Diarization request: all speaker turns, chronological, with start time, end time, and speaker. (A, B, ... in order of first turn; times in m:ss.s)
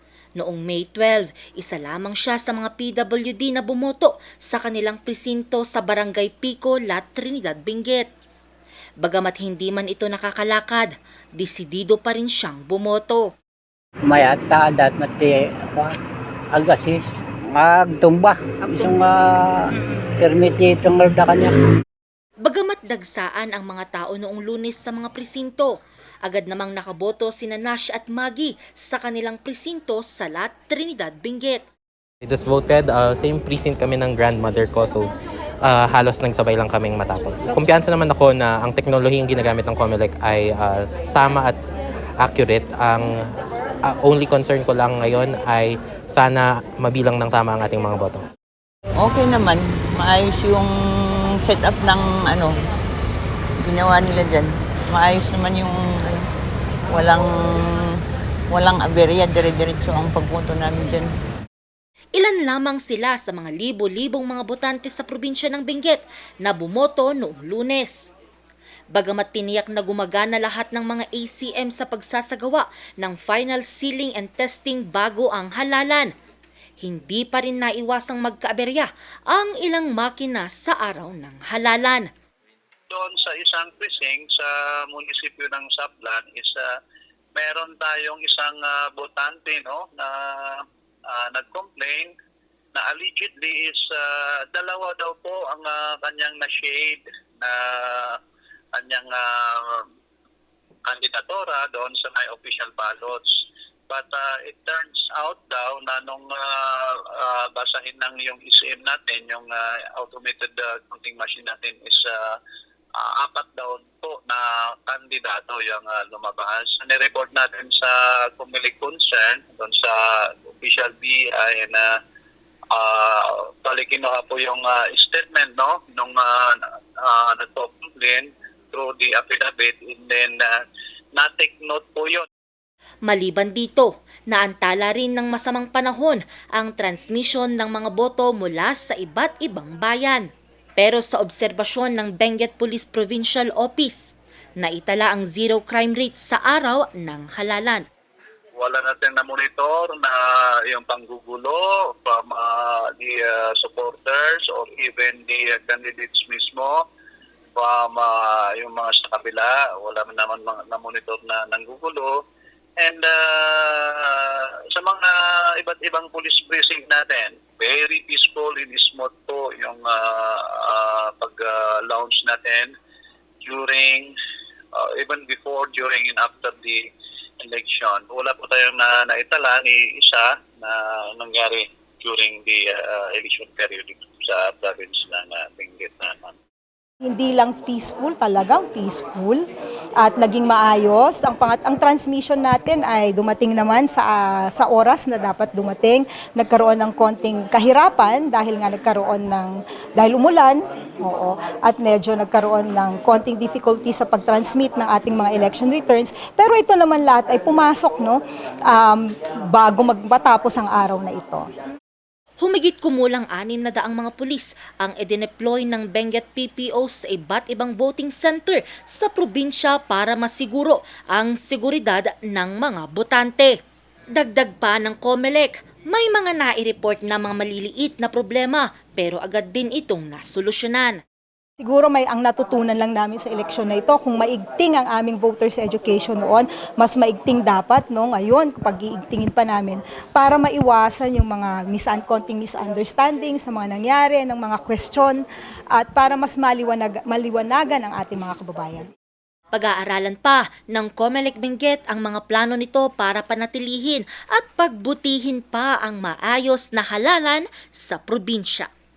0:00.4-0:08.1 A
0:09.0-0:13.3 A
0:14.1-0:15.9 B
0:16.5-0:21.6 B
0:22.4-0:31.6 A
0:32.2-0:35.1 C
0:35.6-0:41.6 C
0:42.2-0:43.2 C
0:43.8-0:48.2 C
0:49.0-0:50.7 D
0:51.4-0:52.6 D
0:53.6-0:56.2 D
0:56.9-0:57.6 D
0:58.5-1:01.1 D
1:02.2-1:08.1 A
1:08.9-1:16.1 A
1:16.8-1:22.1 A
1:22.9-1:26.6 E
1:27.4-1:32.1 E
1:32.8-1:34.0 E
1:34.5-1:38.2 E
1:38.8-1:39.8 E
1:40.9-1:52.2 E
1:53.0-2:01.8 E
2:02.7-2:10.5 E
2:11.2-2:12.3 E
2:13.1-2:20.3 A
2:20.8-2:27.8 A
2:28.6-2:30.2 E
2:30.7-2:36.8 E
2:37.6-2:42.1 E
2:42.8-2:52.7 E
2:53.4-2:54.1 E
2:54.8-2:56.8 E
2:57.4-3:06.4 E
3:07.0-3:09.4 F
3:10.0-3:31.4 F
3:32.4-3:43.6 A
3:44.1-3:51.0 A
3:51.6-4:05.2 F
4:05.8-4:08.9 F
4:09.5-4:18.7 A